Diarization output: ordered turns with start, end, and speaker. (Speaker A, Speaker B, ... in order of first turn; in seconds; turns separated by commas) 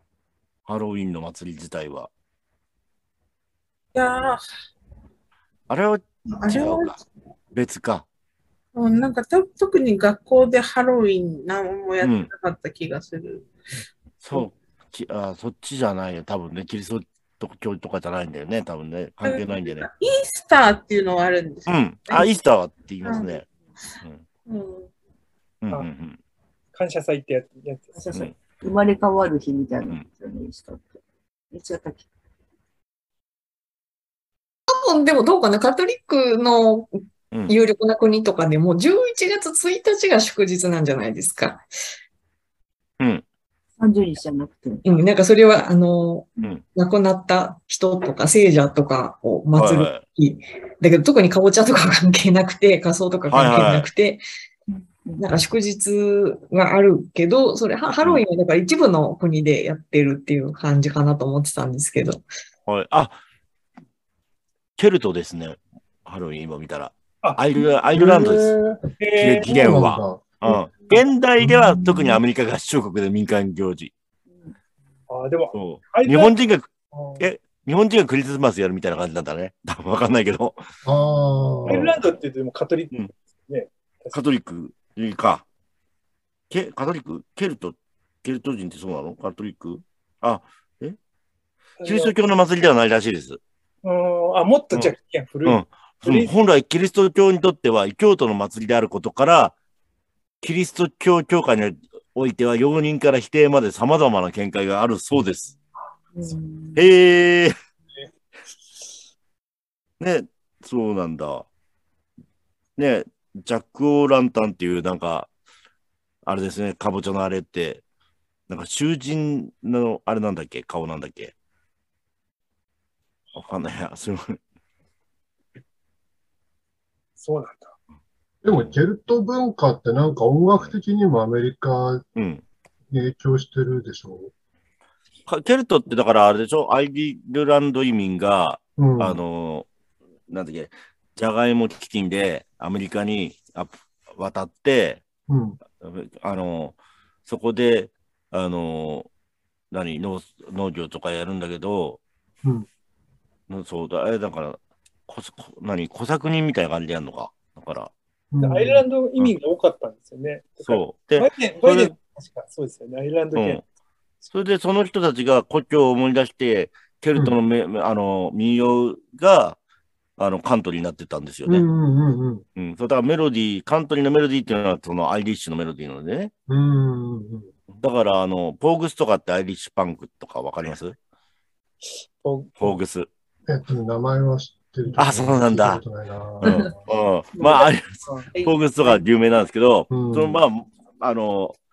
Speaker A: 0.7-2.1, Speaker B: 3.9-4.4, Speaker A: 5.7-7.0, Speaker B: 6.3-7.0, Speaker A: 7.5-8.1, Speaker B: 8.7-13.5, Speaker A: 12.0-12.3, Speaker A: 14.2-19.9, Speaker B: 19.2-22.4, Speaker A: 21.7-24.2, Speaker B: 23.0-23.4, Speaker B: 24.5-24.9, Speaker A: 25.6-26.2, Speaker C: 26.7-28.1, Speaker D: 27.9-31.0, Speaker A: 28.1-28.4, Speaker D: 31.5-32.1, Speaker E: 34.7-41.6, Speaker D: 43.8-45.0, Speaker E: 44.8-54.2, Speaker A: 49.5-50.0, Speaker A: 53.3-53.9, Speaker D: 54.7-55.2, Speaker E: 55.2-62.2, Speaker A: 62.7-63.2, Speaker A: 64.8-68.5, Speaker F: 67.9-68.8, Speaker C: 69.0-69.7, Speaker A: 69.2-73.9, Speaker F: 69.5-70.7, Speaker F: 71.4-72.2, Speaker C: 75.1-76.3, Speaker A: 75.5-80.6, Speaker C: 76.9-77.3, Speaker F: 80.8-82.0, Speaker C: 81.7-84.2, Speaker A: 84.1-85.4, Speaker A: 86.5-91.0, Speaker C: 91.8-92.2, Speaker A: 91.8-93.4, Speaker C: 93.8-96.3, Speaker A: 95.4-99.5, Speaker A: 100.4-105.5, Speaker D: 106.1-106.9, Speaker A: 106.7-107.5, Speaker A: 110.0-111.5, Speaker A: 112.8-115.3, Speaker A: 116.2-117.8, Speaker A: 118.5-121.3, Speaker A: 123.3-124.4, Speaker C: 127.2-127.7, Speaker F: 128.4-132.1, Speaker A: 128.5-128.8, Speaker A: 132.2-132.4, Speaker F: 132.9-134.3, Speaker A: 135.3-139.7, Speaker F: 138.8-139.2, Speaker A: 140.3-145.0, Speaker F: 145.3-145.6, Speaker A: 145.8-149.1, Speaker A: 149.7-152.0, Speaker A: 153.5-157.9, Speaker F: 158.3-158.8, Speaker C: 158.4-163.6, Speaker A: 160.6-161.9, Speaker A: 163.3-163.6, Speaker A: 164.2-169.6, Speaker A: 170.2-171.6, Speaker F: 171.4-172.4, Speaker A: 172.6-176.3, Speaker F: 176.5-177.5, Speaker A: 177.8-180.9, Speaker C: 181.8-182.8, Speaker A: 182.6-183.1, Speaker F: 183.5-186.7, Speaker A: 185.0-185.8, Speaker A: 186.4-191.5, Speaker D: 187.3-187.7, Speaker C: 188.0-188.3, Speaker D: 188.3-189.1, Speaker F: 189.9-190.4